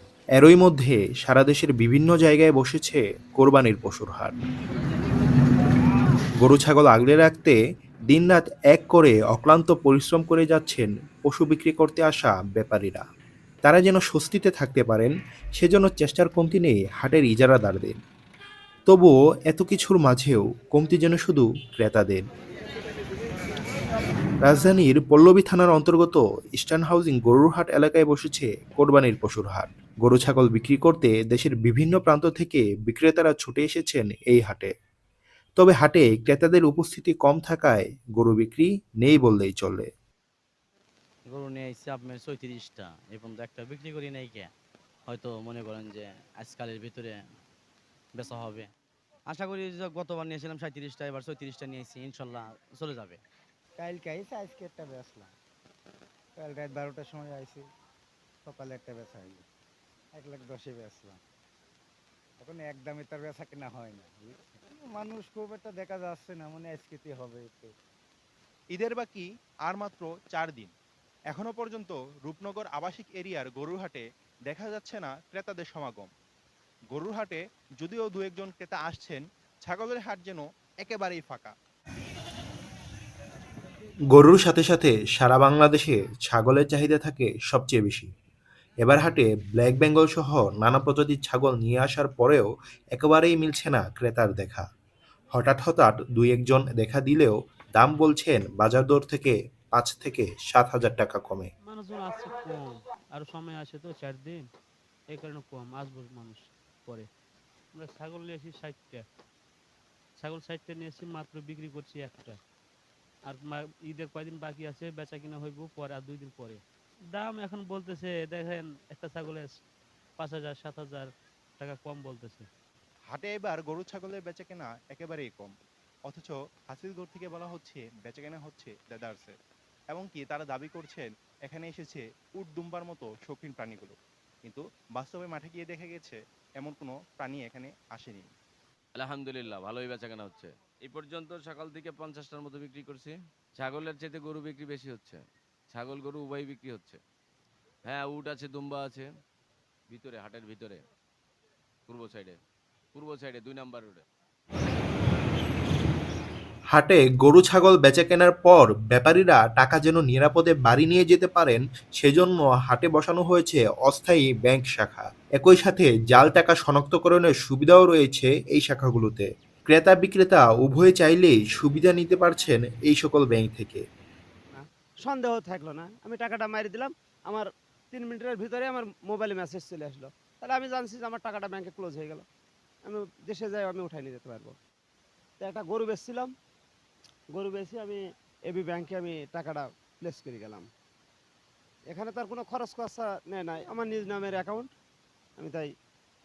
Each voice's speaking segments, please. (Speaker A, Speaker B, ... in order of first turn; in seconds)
Speaker A: 0.4-4.3, 6.4-7.6, 8.1-13.0, 13.6-18.0, 18.9-22.2, 24.4-34.7, 35.6-39.9, 84.1-88.1, 88.8-94.6, 95.3-101.5, 156.7-173.8
Speaker B: 41.3-44.5, 45.1-47.2, 48.1-48.7, 49.3-53.2
Speaker C: 53.8-55.3, 56.4-57.6, 58.5-59.4, 60.2-61.2, 62.4-67.7
Speaker D: 68.7-70.7, 71.3-76.1, 76.9-81.5, 123.1-125.5, 126.1-129.3, 129.9-138.3
Speaker E: 101.7-104.4, 105.1-107.0, 107.7-109.0, 110.2-112.4, 113.3-116.6, 117.1-119.5, 120.2-122.5
Speaker F: 138.9-147.0, 147.8-149.1, 149.9-150.8, 151.9-152.4, 152.9-154.0
Speaker G: 174.5-182.2, 182.8-184.5, 185.4-186.3, 187.3-190.7, 191.9-194.7, 195.4-195.7